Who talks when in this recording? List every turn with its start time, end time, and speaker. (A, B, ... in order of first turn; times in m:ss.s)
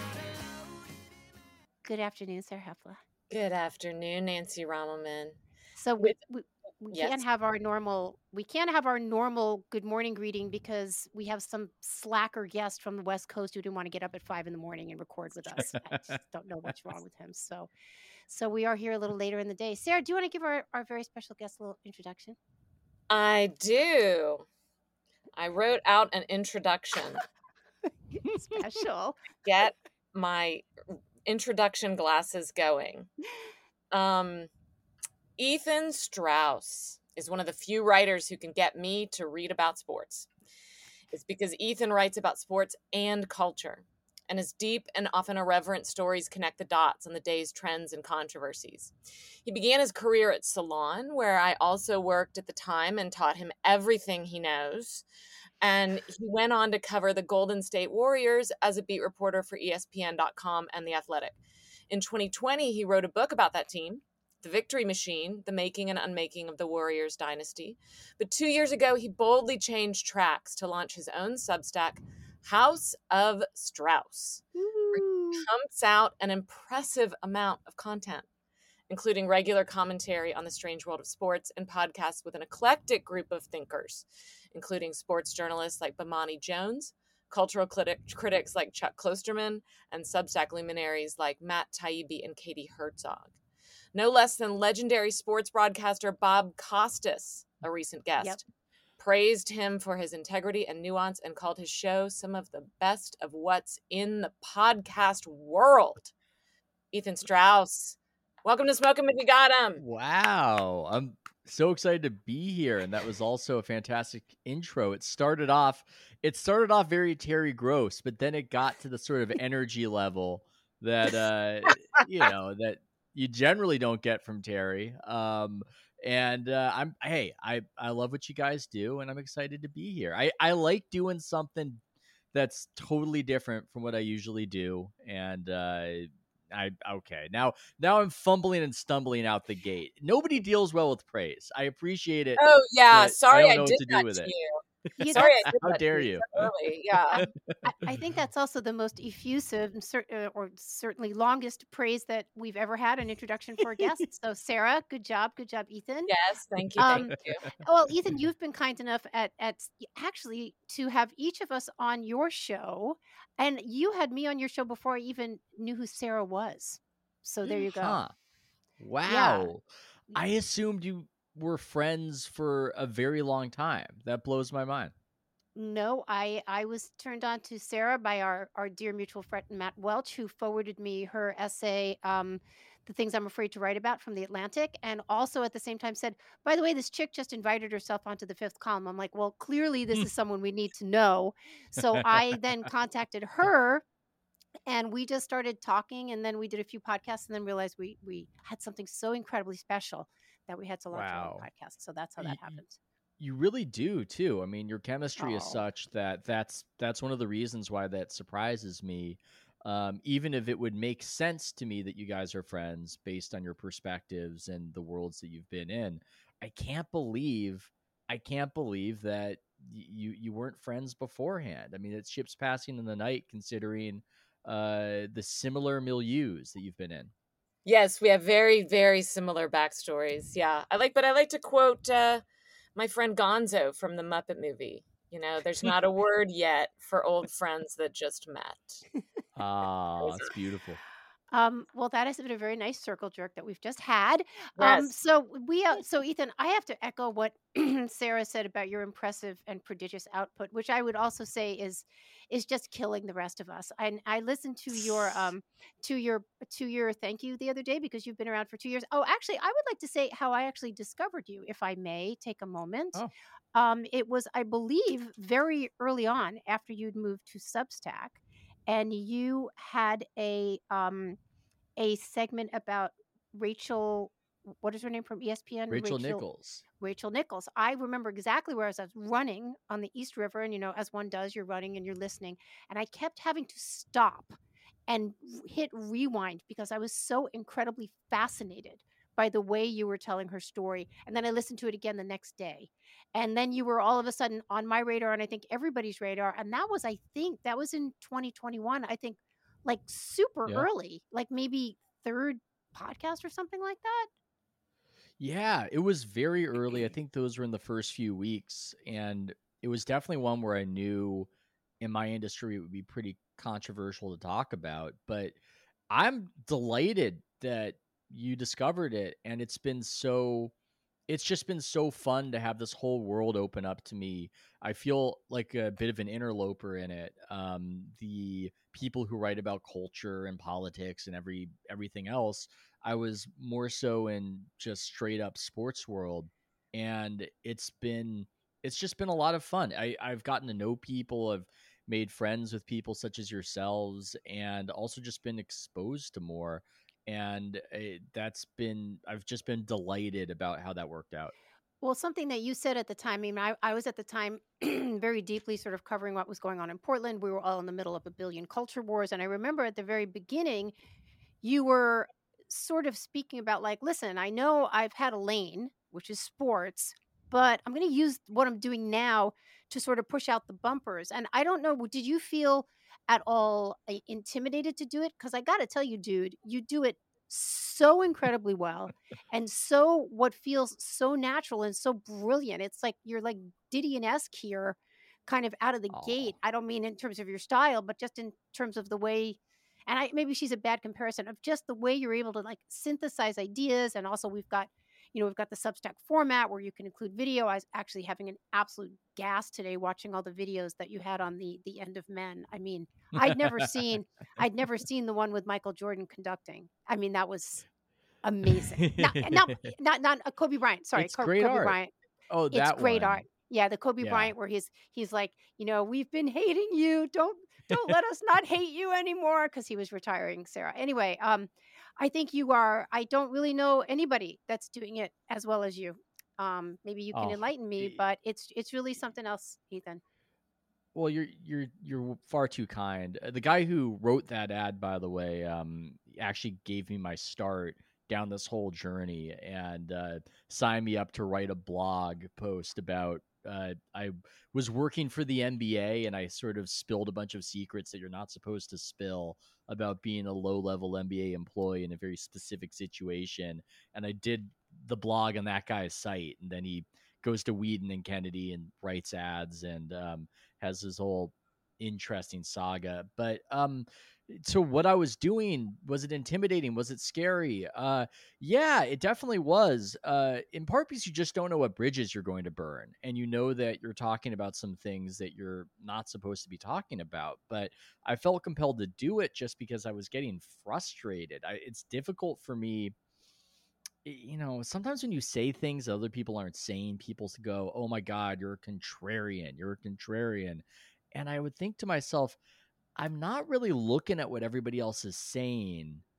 0:01.8-0:03.0 A
0:03.3-0:05.4 B
0:05.8-0:17.7 A
0:06.9-0:07.2 B
0:15.6-0:16.0 C
0:18.3-0:22.4 A
0:23.1-0:24.5 B
0:25.3-0:27.2 B
0:28.2-0:29.2 A
0:29.4-0:30.7 B
0:31.2-0:33.1 B
0:33.9-0:34.5 B
0:35.4-0:40.3 B
0:41.1-0:48.9 B
0:49.4-0:55.0 B
0:55.6-1:01.4 B
1:01.9-1:14.4 B
1:14.6-1:15.4 A
1:15.0-1:18.3 B
1:18.9-1:33.4 B
1:33.9-1:38.4 B
1:39.0-1:46.1 B
1:46.9-1:49.8 B
1:49.8-2:11.8 C
2:12.3-2:22.4 C
2:22.4-2:24.6 B
2:22.9-2:24.3 C
2:25.0-2:26.0 A
2:25.1-2:26.4 C
2:25.1-2:27.2 B
2:27.1-2:36.1 A
2:27.2-2:27.9 C
2:36.1-2:37.5 B
2:36.8-2:48.0 A
2:36.9-2:37.2 C
2:47.4-2:48.1 C
2:48.8-2:54.9 C
2:49.0-2:49.5 A
2:55.6-3:13.8 A
3:12.0-3:12.2 C
3:14.7-3:22.8 A
3:20.9-3:21.5 C
3:22.2-3:22.6 C
3:23.2-3:47.1 C
3:25.2-3:25.6 A
3:47.6-3:52.2 B
3:52.8-3:58.8 B
3:59.4-4:00.8 C
4:00.0-4:00.3 B
4:01.3-4:23.0 A
4:04.6-4:04.9 B
4:23.5-4:31.2 A
4:31.8-4:36.2 A
4:35.7-4:36.6 C
4:36.8-5:04.1 A
5:05.2-5:11.3 C
5:11.8-5:15.4 C
5:15.9-5:20.5 C
5:21.1-5:51.3 C
5:51.8-6:00.7 A
6:01.4-6:47.6 A
6:25.9-6:26.3 C
6:48.2-6:51.9 A
6:48.6-6:49.6 C
6:51.0-6:51.8 C
6:52.3-6:53.2 C
6:52.5-7:10.0 A
6:54.0-6:54.3 C
7:07.1-7:08.0 C
7:10.9-8:02.9 C
8:04.0-8:12.4 C
8:13.0-8:16.0 C